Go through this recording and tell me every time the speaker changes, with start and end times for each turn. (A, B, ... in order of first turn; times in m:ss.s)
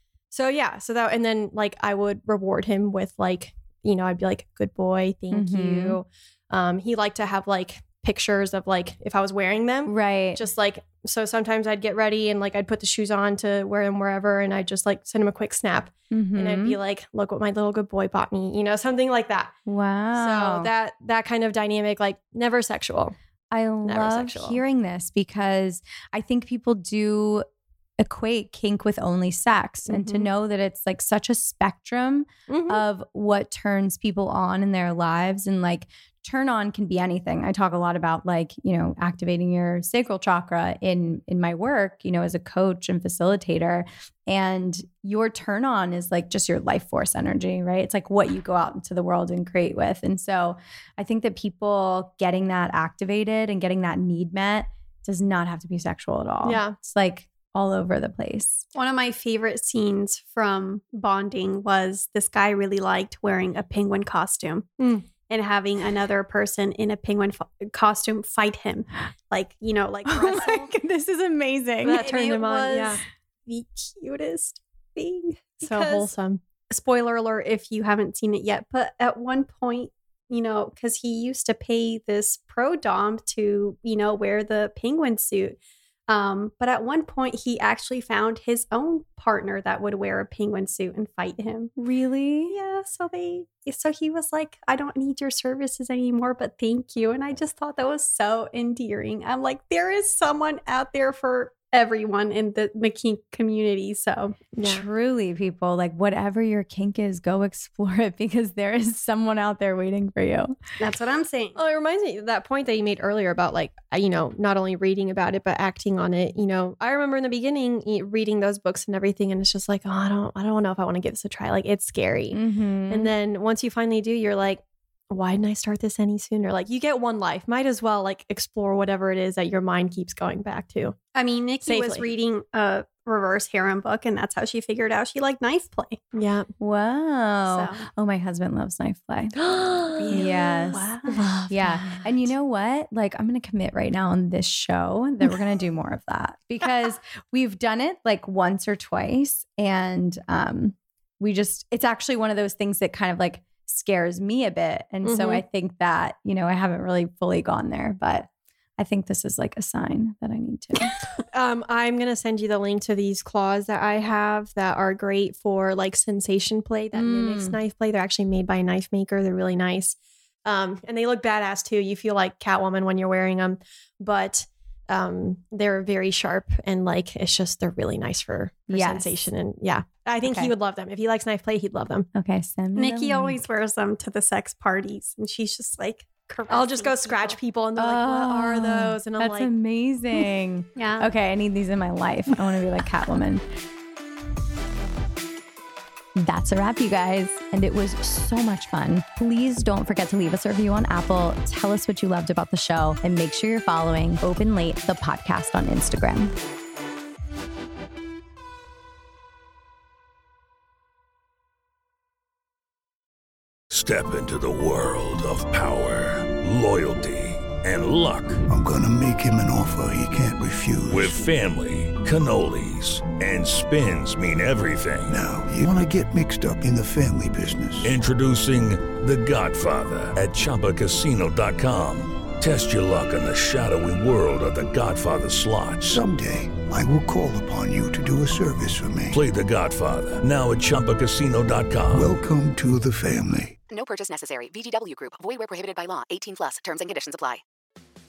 0:00.3-0:19.5 A
0:05.3-0:06.0 B
0:09.9-0:10.4 B
0:16.1-0:16.8 B
0:19.7-0:20.7 B
0:20.1-0:23.2 A
0:23.5-0:27.5 B
0:23.8-0:24.6 A
0:28.0-0:58.6 B
0:29.9-0:30.3 A
0:32.5-0:32.8 A
0:56.4-0:56.8 A
0:58.8-1:04.7 C
1:04.8-1:05.0 A
1:05.3-1:10.7 C
1:10.1-1:12.1 B
1:11.8-1:13.0 A
1:12.0-1:16.1 C
1:15.6-1:16.4 A
1:16.7-1:31.7 C
1:31.8-1:32.6 B
1:32.5-1:44.4 C
1:44.6-1:44.9 A
1:44.6-1:50.6 B
1:50.8-1:51.6 C
1:51.6-2:11.0 A
2:02.3-2:03.1 B
2:11.1-2:16.0 C
2:11.6-2:12.1 A
2:16.1-2:16.5 A
2:16.6-2:19.4 B
2:17.5-2:17.9 C
2:19.4-2:22.0 A
2:20.0-2:21.3 C
2:20.1-2:20.8 B
2:21.5-2:41.0 B
2:35.0-2:35.4 A
2:41.3-3:02.1 A
2:46.9-2:47.6 B
2:58.7-2:59.3 B
3:00.2-3:00.5 B
3:02.1-3:03.5 B
3:02.8-3:07.4 C
3:06.5-3:09.5 A
3:07.8-3:13.4 B
3:10.8-3:11.1 C
3:16.2-3:26.3 B
3:33.7-3:38.4 D
3:38.5-3:41.3 E
3:40.9-3:45.2 D
3:45.1-3:48.0 E
3:47.8-3:56.0 D
3:55.8-3:59.2 E
3:59.1-4:02.1 D
4:01.9-4:03.6 E
4:03.7-4:07.4 F